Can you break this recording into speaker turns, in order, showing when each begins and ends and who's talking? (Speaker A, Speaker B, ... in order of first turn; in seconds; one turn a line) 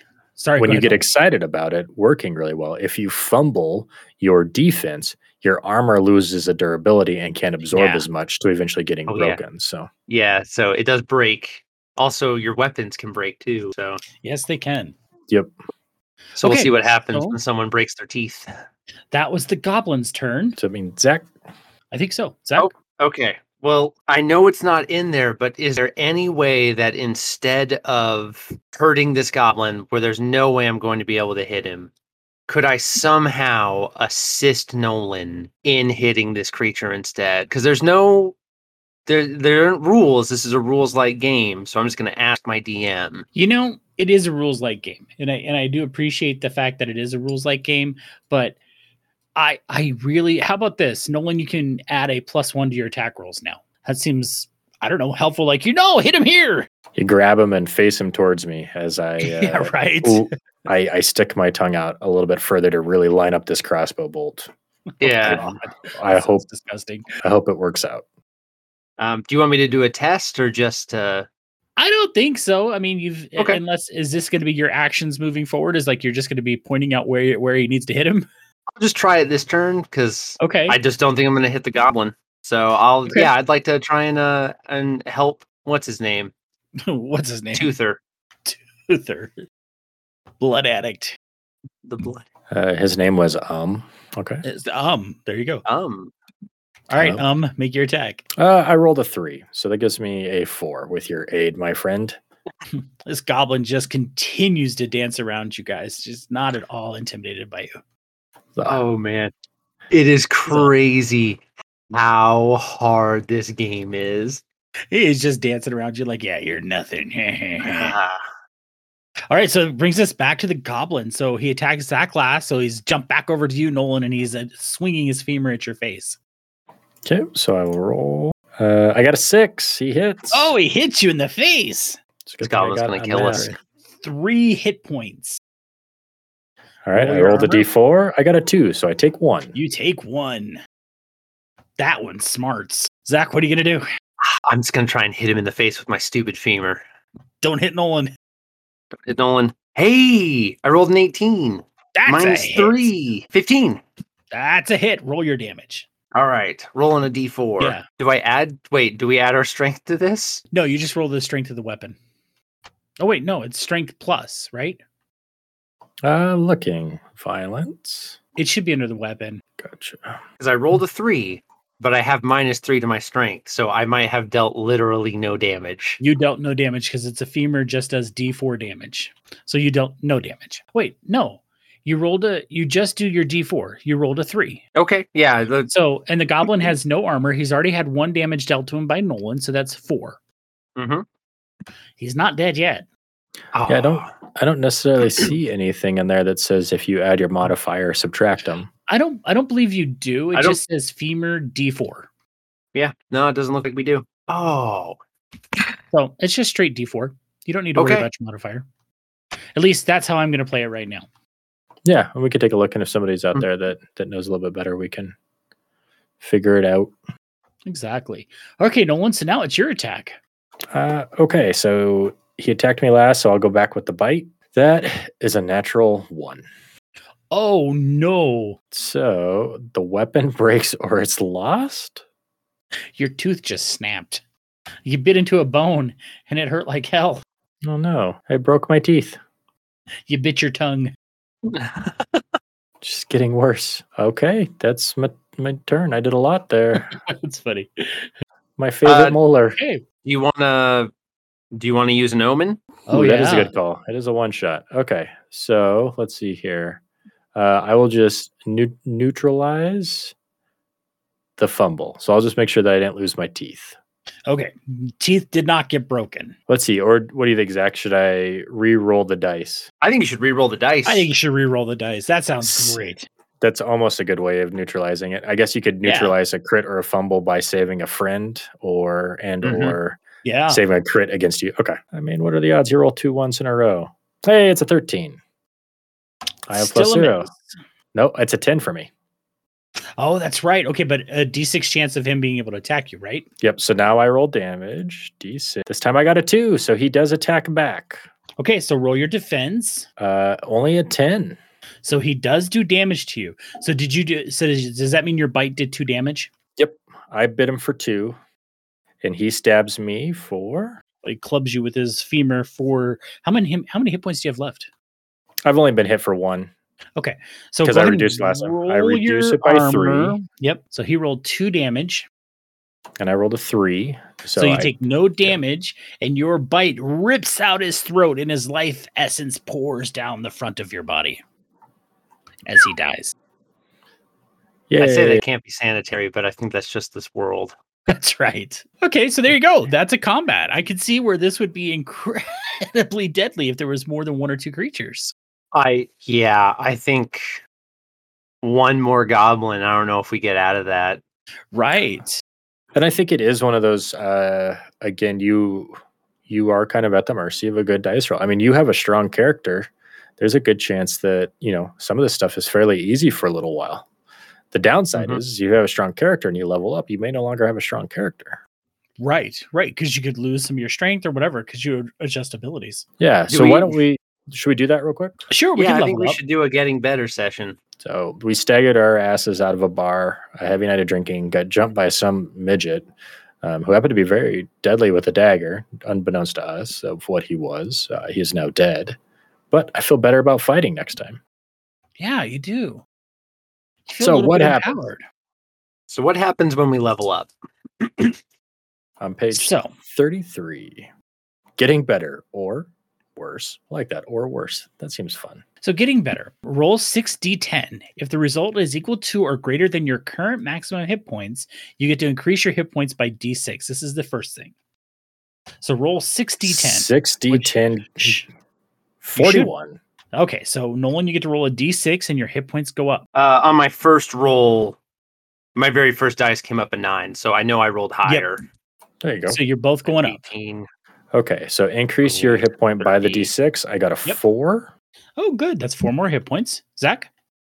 Speaker A: 0.4-1.0
Speaker B: 0.6-9.9
Speaker A: 7.7-8.1
Speaker C: 9.1-9.4
Speaker C: 10.1-14.0
Speaker A: 14.2-14.9
Speaker A: 16.4-17.4
Speaker C: 16.4-18.5
Speaker A: 19.1-20.6
Speaker B: 20.6-21.3
Speaker A: 21.9-22.7
Speaker C: 22.6-31.9
Speaker C: 32.5-38.3
Speaker C: 39.1-43.3
Speaker A: 43.3-48.6
Speaker A: 49.4-56.7
Speaker B: 56.9-64.5
Speaker A: 59.2-60.3
Speaker C: 65.0-65.5
Speaker A: 65.0-67.1
Speaker B: 65.2-66.4
Speaker B: 67.2-68.0
Speaker C: 69.0-71.3
Speaker A: 71.8-78.3
Speaker C: 78.8-86.3
Speaker A: 80.4-80.8
Speaker A: 86.8-87.7
Speaker C: 87.5-88.0
Speaker A: 88.5-89.3
Speaker A: 90.4-91.2
Speaker C: 91.8-92.2
Speaker B: 92.5-94.4
Speaker A: 94.4-95.6
Speaker C: 95.7-96.1
Speaker A: 96.9-98.2
Speaker B: 96.9-97.2
Speaker B: 98.4-102.2
Speaker A: 103.0-107.8
Speaker B: 108.5-108.8
Speaker C: 108.7-109.3
Speaker C: 109.9-114.4
Speaker A: 114.9-118.0
Speaker C: 117.6-118.2
Speaker A: 119.3-126.2
Speaker B: 127.0-130.5
Speaker A: 130.3-132.0
Speaker B: 132.3-133.5
Speaker C: 132.4-133.5
Speaker A: 134.0-135.4
Speaker B: 136.9-139.6
Speaker A: 136.9-137.7
Speaker A: 139.5-140.6
Speaker A: 141.8-143.8
Speaker C: 144.4-146.8
Speaker A: 147.4-148.1
Speaker C: 149.0-153.8
Speaker A: 151.9-152.9
Speaker A: 154.3-155.9
Speaker C: 156.1-160.4
Speaker A: 157.6-157.8
Speaker A: 160.5-162.0
Speaker A: 163.0-164.8
Speaker B: 166.0-168.2
Speaker A: 168.4-169.4
Speaker B: 169.6-170.2
Speaker C: 170.4-176.0
Speaker A: 176.0-184.6
Speaker C: 184.7-185.7
Speaker A: 185.7-190.2
Speaker C: 190.8-191.1
Speaker A: 192.0-192.9
Speaker C: 193.5-194.1
Speaker B: 193.7-198.7
Speaker A: 198.9-202.1
Speaker C: 202.7-205.0
Speaker A: 205.9-208.7
Speaker C: 207.8-208.1
Speaker A: 209.6-211.1
Speaker B: 211.8-215.2
Speaker B: 216.2-216.9
Speaker A: 217.7-220.2
Speaker B: 220.7-226.4
Speaker A: 227.3-228.6
Speaker B: 228.7-232.0
Speaker A: 232.9-234.2
Speaker A: 234.8-237.2
Speaker B: 237.6-239.2
Speaker A: 240.1-240.9
Speaker C: 241.5-242.2
Speaker B: 242.8-247.0
Speaker A: 246.9-248.1
Speaker B: 248.6-249.6
Speaker C: 248.8-249.2
Speaker A: 249.6-249.8
Speaker C: 250.0-250.9
Speaker C: 251.6-252.7
Speaker A: 252.9-253.5
Speaker B: 252.9-256.8
Speaker B: 257.3-260.1
Speaker B: 261.4-263.8
Speaker A: 264.3-266.4
Speaker B: 266.5-269.7
Speaker C: 269.8-271.1
Speaker A: 270.9-273.1
Speaker B: 273.4-285.2
Speaker A: 275.8-276.1
Speaker C: 279.4-279.8
Speaker A: 280.2-280.6
Speaker B: 286.5-287.3
Speaker A: 286.5-287.5
Speaker B: 287.9-288.9
Speaker A: 290.0-293.3
Speaker B: 293.4-298.0
Speaker A: 298.4-299.9
Speaker B: 300.0-301.4
Speaker A: 301.8-306.3
Speaker B: 306.6-308.2
Speaker B: 309.0-310.8
Speaker A: 311.0-314.7
Speaker B: 315.4-316.5
Speaker A: 317.0-322.1
Speaker B: 317.6-320.2
Speaker B: 323.0-325.4
Speaker A: 324.4-331.2
Speaker A: 332.4-333.1
Speaker B: 334.7-335.2
Speaker C: 334.8-337.6
Speaker A: 337.9-345.1
Speaker C: 345.5-347.4
Speaker C: 348.4-351.0
Speaker A: 351.5-352.2
Speaker B: 352.7-355.7
Speaker B: 356.3-363.9
Speaker B: 364.5-368.4
Speaker A: 369.0-372.8
Speaker B: 373.0-375.2
Speaker C: 373.3-373.8
Speaker A: 375.3-376.2
Speaker C: 375.6-377.6
Speaker B: 377.8-382.9
Speaker B: 383.4-389.0
Speaker B: 389.5-391.2
Speaker A: 392.0-392.8
Speaker A: 393.9-395.0
Speaker B: 394.0-394.7
Speaker C: 395.9-397.3
Speaker B: 399.0-400.9
Speaker A: 399.3-399.7
Speaker B: 401.6-405.4
Speaker A: 405.6-414.5
Speaker A: 415.6-418.3
Speaker B: 416.4-418.2
Speaker B: 419.0-419.8
Speaker A: 419.1-419.5
Speaker A: 420.1-423.0
Speaker C: 423.1-424.8
Speaker C: 425.6-428.4
Speaker B: 429.0-429.4
Speaker A: 429.3-430.3
Speaker C: 429.9-430.7
Speaker B: 431.1-434.7
Speaker C: 432.0-433.3
Speaker A: 435.2-437.1